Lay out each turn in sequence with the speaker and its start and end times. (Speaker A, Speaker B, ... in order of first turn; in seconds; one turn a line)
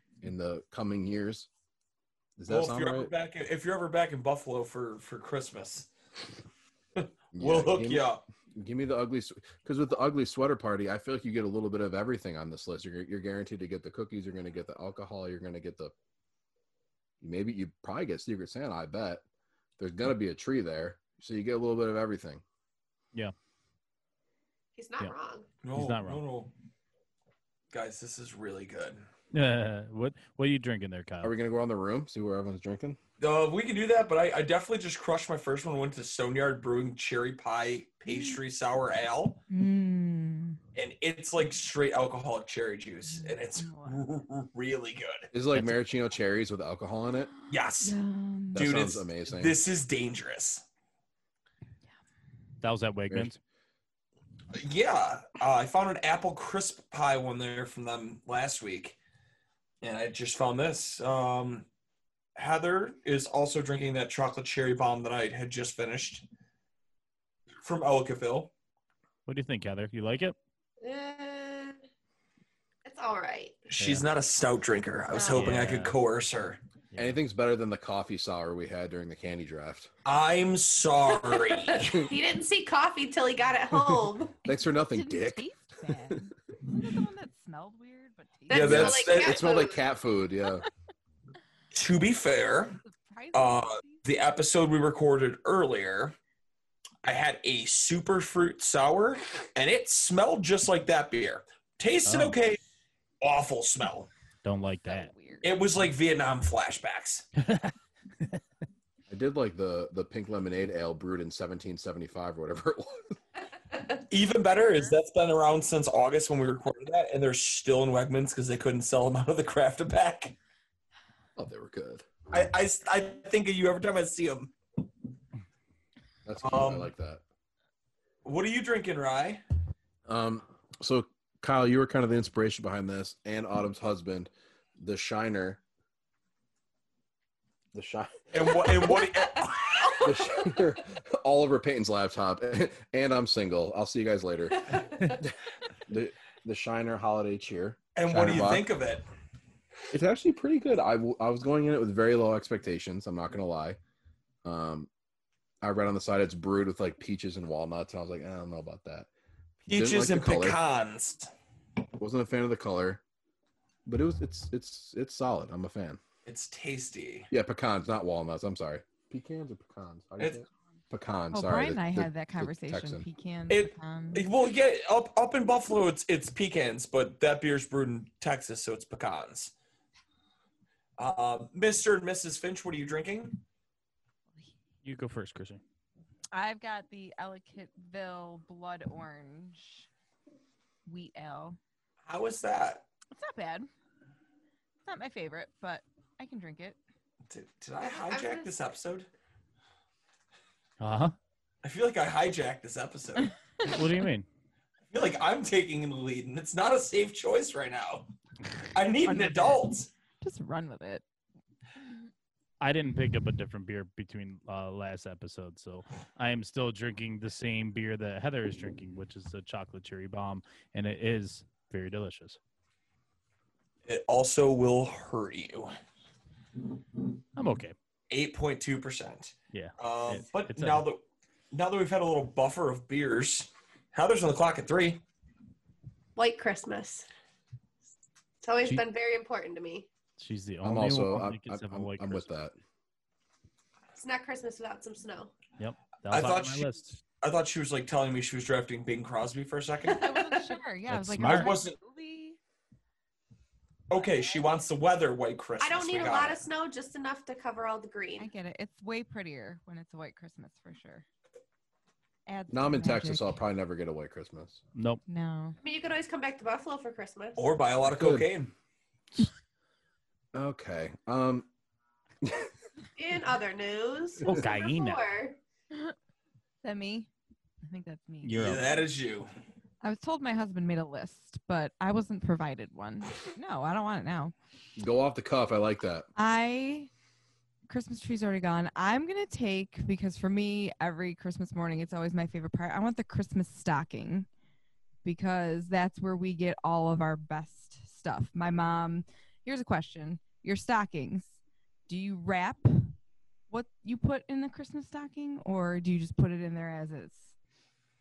Speaker A: 0.2-1.5
Speaker A: 2.4-3.1
Speaker B: 2.5-5.9
Speaker B: 7.0-8.2
Speaker A: 7.3-15.9
Speaker A: 17.2-19.2
Speaker A: 19.8-22.4
Speaker C: 24.8-25.5
Speaker B: 25.6-26.5
Speaker D: 25.7-26.2
Speaker B: 27.7-29.1
Speaker D: 29.3-31.3
Speaker A: 31.2-33.0
Speaker B: 33.2-39.4
Speaker E: 38.1-38.4
Speaker E: 39.5-40.6
Speaker B: 40.8-45.3
Speaker E: 43.0-44.0
Speaker A: 45.3-47.3
Speaker B: 47.5-48.0
Speaker E: 47.8-48.6
Speaker A: 48.5-49.5
Speaker B: 48.5-50.6
Speaker D: 52.6-53.4
Speaker B: 54.5-59.0
Speaker B: 59.8-61.7
Speaker B: 62.4-66.3
Speaker B: 67.6-68.5
Speaker D: 69.3-70.3
Speaker C: 70.8-71.8
Speaker C: 72.8-73.7
Speaker B: 73.7-76.6
Speaker D: 73.8-74.1
Speaker C: 75.1-75.6
Speaker D: 75.3-76.0
Speaker D: 76.9-77.2
Speaker A: 77.0-79.9
Speaker B: 80.0-82.0
Speaker C: 81.1-84.3
Speaker A: 84.5-85.5
Speaker E: 84.5-88.8
Speaker C: 88.5-89.8
Speaker B: 88.5-89.5
Speaker A: 88.5-90.7
Speaker B: 91.7-92.8
Speaker E: 92.8-94.0
Speaker B: 93.3-96.2
Speaker B: 97.0-102.6
Speaker D: 102.1-102.4
Speaker B: 103.2-104.1
Speaker D: 104.4-105.1
Speaker E: 104.9-105.5
Speaker B: 105.4-107.3
Speaker D: 107.4-108.4
Speaker A: 109.1-113.2
Speaker B: 114.0-120.4
Speaker E: 114.6-114.9
Speaker A: 121.4-122.1
Speaker B: 122.3-124.5
Speaker A: 126.2-127.2
Speaker B: 126.4-126.9
Speaker B: 128.2-129.4
Speaker A: 130.1-135.6
Speaker A: 137.7-138.9
Speaker B: 138.3-140.1
Speaker C: 138.5-140.0
Speaker A: 140.0-145.3
Speaker C: 144.7-145.2
Speaker A: 145.9-148.7
Speaker B: 147.9-149.1
Speaker A: 149.9-153.8
Speaker A: 154.4-154.9
Speaker A: 155.6-159.1
Speaker B: 159.7-161.3
Speaker A: 159.7-160.6
Speaker A: 162.0-163.0
Speaker A: 163.9-166.0
Speaker B: 166.2-167.3
Speaker A: 167.3-173.1
Speaker E: 171.3-174.3
Speaker B: 173.5-179.5
Speaker B: 181.0-183.4
Speaker D: 184.8-185.6
Speaker E: 186.3-189.9
Speaker E: 190.9-191.6
Speaker B: 192.1-192.8
Speaker E: 193.2-193.7
Speaker E: 194.9-196.8
Speaker B: 197.3-199.1
Speaker C: 197.9-198.7
Speaker D: 200.8-201.2
Speaker B: 201.6-203.7
Speaker D: 203.6-204.3
Speaker B: 204.9-208.1
Speaker B: 208.7-209.9
Speaker E: 209.0-209.7
Speaker E: 210.2-211.0
Speaker D: 212.6-222.4
Speaker B: 223.9-225.7
Speaker D: 227.4-227.8
Speaker B: 228.1-235.0
Speaker D: 229.5-230.8
Speaker C: 236.2-237.1
Speaker C: 238.4-239.9
Speaker D: 240.2-242.3
Speaker A: 240.6-242.6
Speaker C: 243.9-245.3
Speaker D: 245.6-247.0
Speaker B: 246.1-250.1
Speaker E: 249.9-252.4
Speaker D: 250.9-251.6
Speaker B: 251.2-251.8
Speaker B: 253.9-256.4
Speaker E: 253.9-254.5
Speaker C: 255.6-258.3
Speaker E: 258.2-261.1
Speaker E: 262.3-263.4
Speaker A: 262.5-264.6
Speaker D: 264.8-265.0
Speaker E: 265.1-265.6
Speaker C: 265.6-267.5
Speaker B: 267.4-268.5
Speaker A: 267.9-268.3
Speaker A: 270.3-271.5
Speaker A: 272.2-272.5
Speaker C: 273.0-275.4
Speaker D: 274.2-275.1
Speaker E: 276.6-277.1
Speaker E: 277.6-278.8
Speaker D: 278.2-278.7
Speaker B: 278.3-279.3
Speaker E: 279.8-284.3
Speaker A: 284.8-286.1
Speaker E: 286.2-286.9
Speaker E: 287.7-294.3
Speaker E: 295.0-301.4
Speaker E: 301.9-302.9
Speaker E: 303.5-307.3